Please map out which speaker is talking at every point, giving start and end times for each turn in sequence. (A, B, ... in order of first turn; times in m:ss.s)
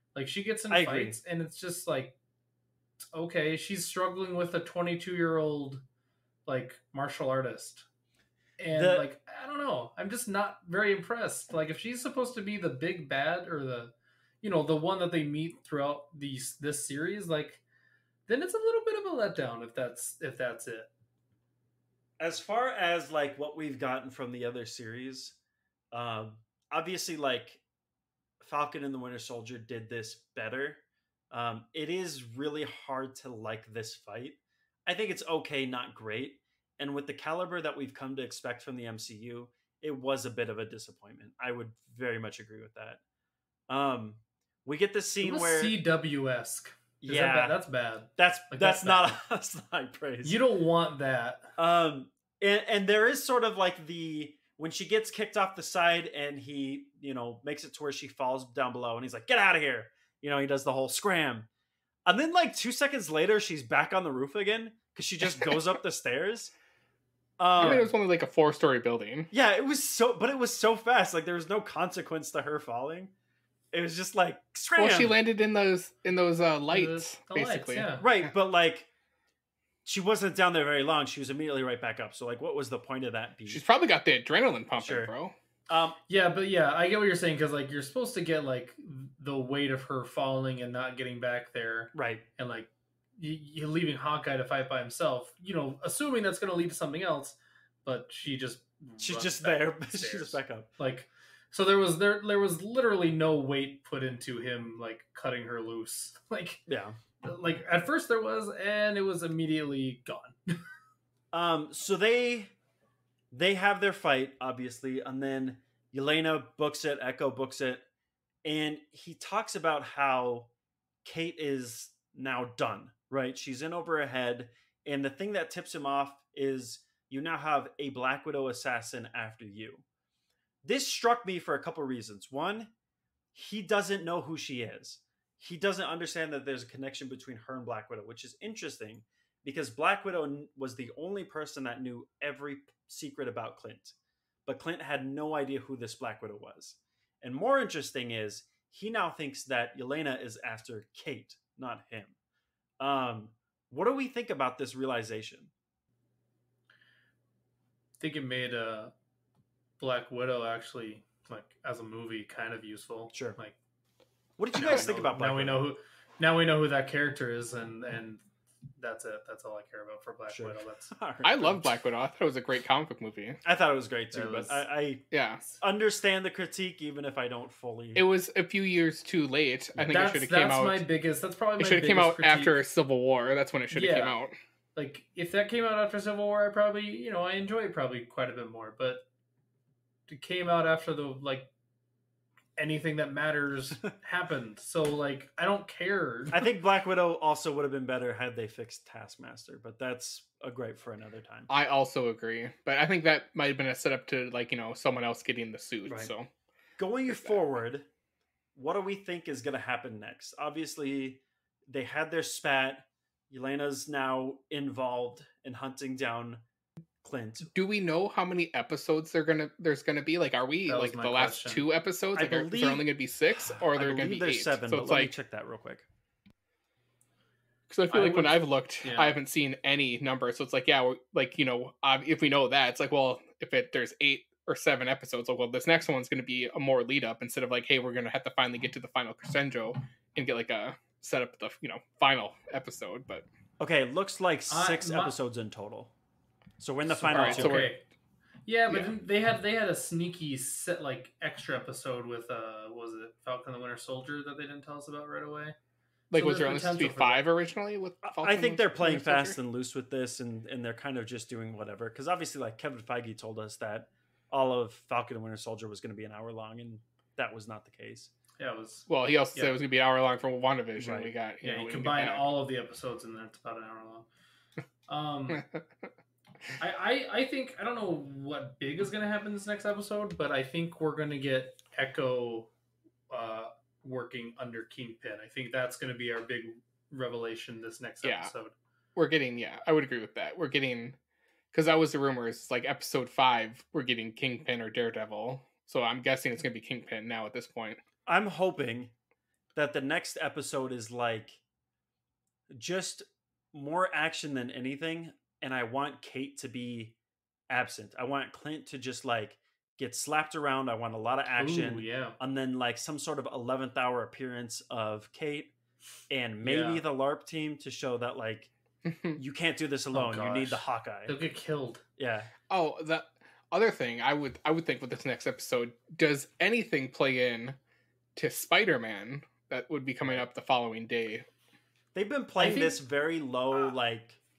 0:00.2-0:02.2 A
0:00.7-0:01.2 B
0:03.1-0:05.8 A
0:06.5-0:07.9 A
0:08.6-0:17.6 A
0:08.7-0:09.1 B
0:18.3-0:20.9 A
0:22.2-0:25.4 B
0:25.9-0:27.6 B
0:28.4-0:43.0 B
0:43.7-0:45.8 B
0:45.2-0:49.1 A
0:47.0-0:47.6 B
0:48.2-0:50.4 B
0:50.2-0:51.5 A
0:51.6-1:01.5 B
1:02.1-1:06.5 B
1:05.2-1:05.6 C
1:07.4-1:07.9 B
1:07.6-1:09.3 C
1:07.6-1:07.9 A
1:09.3-1:13.1 B
1:13.7-1:15.2 B
1:14.8-1:17.9 C
1:16.7-1:18.0 A
1:18.0-1:18.9 B
1:19.8-1:23.6 B
1:23.5-1:25.3 C
1:24.8-1:25.1 B
1:25.7-1:26.0 B
1:26.1-1:46.6 A
1:31.9-1:32.2 B
1:39.0-1:40.7 B
1:46.7-1:47.0 B
1:47.2-1:50.6 A
1:51.3-1:52.5 B
1:53.3-1:57.8 B
1:58.4-2:00.5 B
2:01.0-2:09.8 B
2:10.6-2:12.7 B
2:13.4-2:24.0 B
2:24.5-2:32.1 B
2:32.8-2:35.5 B
2:38.0-2:38.9 A
2:39.8-2:43.6 A
2:44.4-2:45.6 B
2:44.5-2:48.2 A
2:48.8-2:50.9 A
2:50.3-2:51.8 B
2:51.2-2:53.4 C
2:53.4-2:58.0 B
2:54.1-2:54.6 A
2:55.1-2:55.4 C
2:58.0-3:00.8 C
2:59.8-3:00.0 B
2:59.9-3:02.6 A
3:01.6-3:04.4 C
3:03.7-3:04.2 A
3:04.8-3:09.0 A
3:10.1-3:11.5 A
3:12.6-3:16.5 A
3:16.3-3:21.5 B
3:21.5-3:26.3 C
3:25.9-3:26.1 B
3:26.8-3:27.9 B
3:28.6-3:36.4 B
3:37.0-3:37.5 B
3:37.5-3:45.1 C
3:40.7-3:41.6 A
3:42.2-3:42.9 B
3:43.6-3:45.8 B
3:47.7-4:03.2 C
3:47.9-3:49.2 A
4:03.6-4:05.9 B
4:04.5-4:05.2 A
4:06.6-4:07.7 B
4:06.9-4:07.9 A
4:07.1-4:07.7 C
4:08.5-4:15.6 A
4:16.1-4:19.4 C
4:16.1-4:17.3 A
4:18.0-4:28.1 B
4:28.4-4:29.6 A
4:28.9-4:32.3 C
4:30.8-4:31.1 B
4:31.4-4:34.1 A
4:34.9-4:35.4 A
4:35.3-4:35.6 C
4:36.6-4:42.5 A
4:43.1-4:48.5 A
4:48.0-4:48.3 C
4:49.0-4:51.0 C
4:51.5-4:57.8 C
4:58.1-4:58.9 B
4:59.6-5:01.4 B
5:02.5-5:06.9 B
5:07.5-5:15.5 B
5:11.4-5:12.2 A
5:16.1-5:18.5 B
5:16.4-5:16.8 A
5:18.8-5:19.2 C
5:19.2-5:21.2 B
5:19.9-5:21.8 A
5:22.0-5:22.3 B
5:22.5-5:27.6 C
5:28.2-5:31.3 C
5:31.9-5:34.2 B
5:32.4-5:32.8 A